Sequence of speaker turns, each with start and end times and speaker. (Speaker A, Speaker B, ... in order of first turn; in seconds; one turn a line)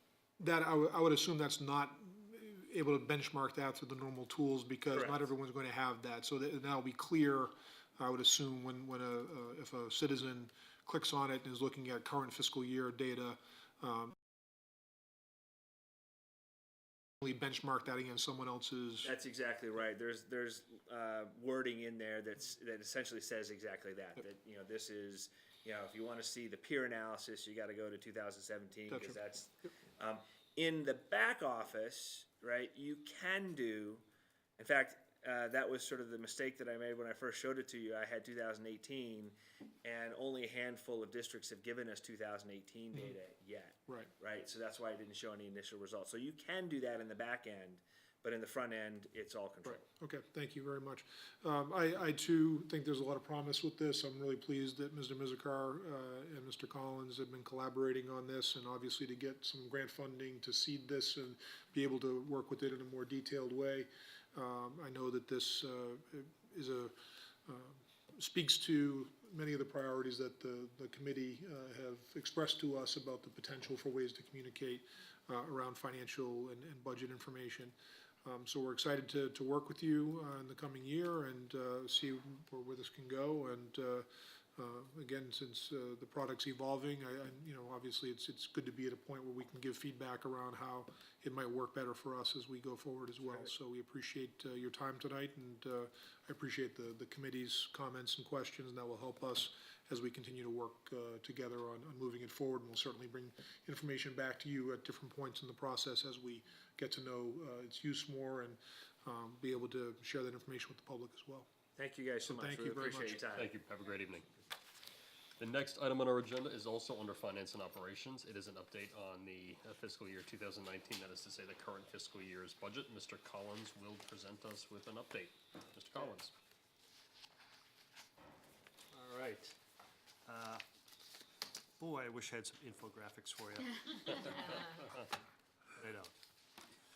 Speaker A: 0.4-14.2
Speaker B: 4.9-5.2
Speaker A: 17.2-19.1
Speaker B: 19.0-34.0
Speaker A: 28.9-29.2
Speaker B: 34.6-49.9
Speaker A: 49.6-67.0
Speaker A: 67.5-77.7
Speaker A: 78.2-111.5
Speaker B: 111.8-113.5
Speaker A: 112.2-113.2
Speaker C: 113.2-114.3
Speaker C: 115.4-126.3
Speaker C: 128.9-129.5
Speaker D: 130.3-130.6
Speaker D: 131.8-134.3
Speaker C: 134.7-135.0
Speaker D: 135.8-136.1